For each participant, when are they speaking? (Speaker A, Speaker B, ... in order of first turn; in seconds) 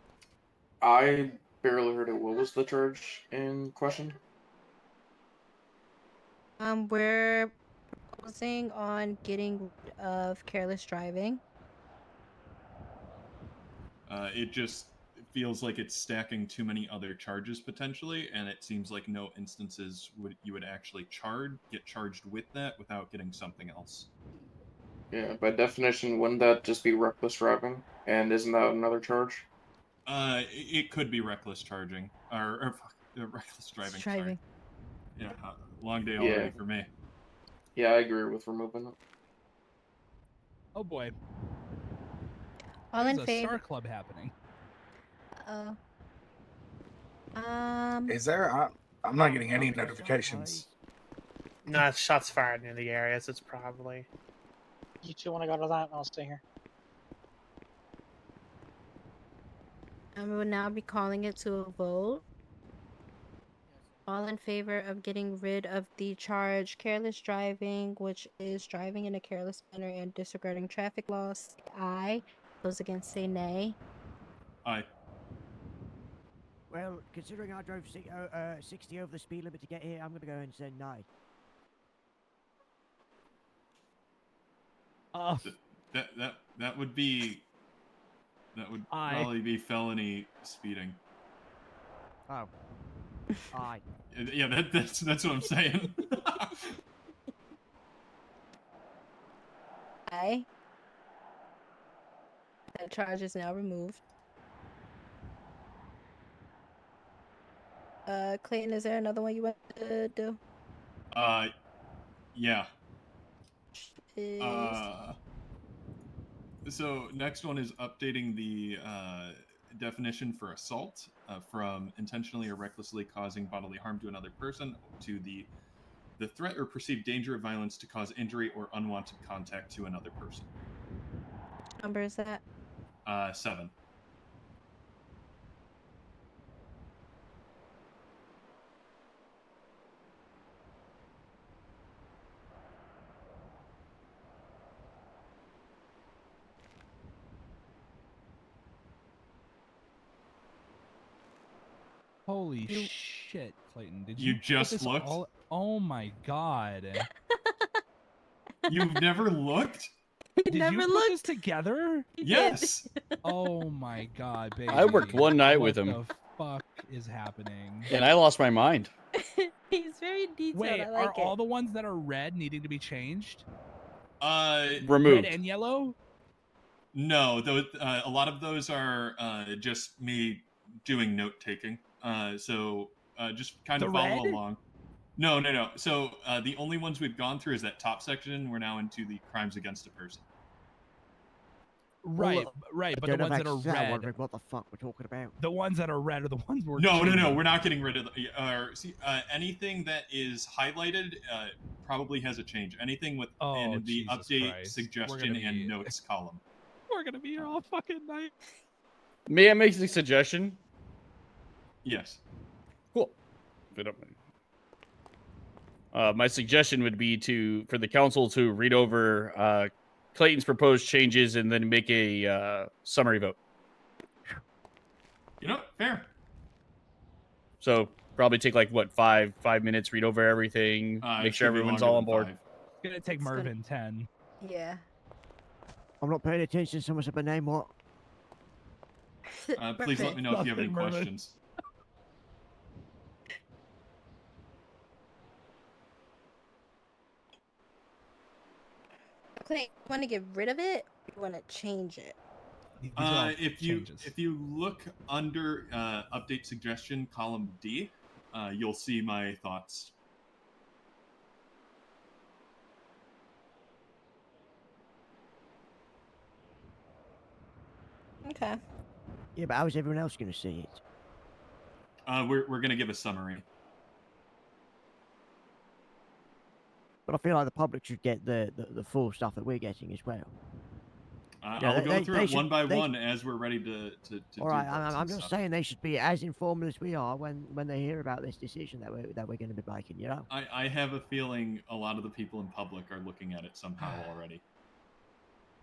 Speaker A: 0.8-4.2, 25.1-29.5, 36.2-36.5, 37.8-39.0
Speaker B: 6.6-7.6, 8.2-11.4, 33.8-34.4, 42.9-43.6, 45.4-45.8, 47.4-48.2, 60.2-62.2, 64.1-73.8, 100.1-100.5, 102.7-104.0, 108.1-110.4, 114.1-114.8, 131.8-132.4, 160.4-161.2, 162.2-163.2, 169.2-171.3, 233.2-233.5, 234.4-234.8, 239.4-240.2, 249.4-252.2, 268.3-268.6
Speaker C: 14.1-24.1, 30.1-34.4, 35.2-36.9, 85.5-87.5, 88.5-91.0, 94.1-96.7, 111.1-111.5, 112.3-112.7, 114.4-115.2, 116.7-125.5, 126.2-130.5, 133.1-133.7, 154.2-155.2, 158.7-159.9, 162.2-162.9, 174.2-174.9, 176.9-184.6, 185.2-190.2, 196.8-206.4, 211.8-212.2, 225.4-226.1, 231.0-232.4, 239.6-241.4, 253.0-259.9, 272.1-273.4, 281.4-285.4, 290.3-294.4
Speaker D: 40.8-41.1, 43.0-44.3, 85.1-85.5, 88.9-89.4, 152.3-157.1, 160.5-162.1, 163.2-167.9, 170.5-173.4, 175.0-176.0, 183.8-184.4, 192.0-194.1, 195.4-197.5, 203.4-205.9, 206.9-208.3, 232.8-234.1, 239.9-241.1, 252.8-254.1, 293.8-294.1
Speaker E: 48.1-50.6
Speaker F: 49.5-50.8, 76.7-81.1, 93.5-93.8, 192.2-195.3, 236.0-237.7, 269.4-270.8, 277.1-280.3, 281.6-282.9, 284.4-290.3
Speaker G: 51.7-52.4, 55.0-56.4
Speaker H: 51.7-54.0
Speaker I: 164.7-166.0, 167.9-168.9, 174.8-175.4, 209.3-210.6, 213.8-214.1, 215.9-223.4, 227.6-232.3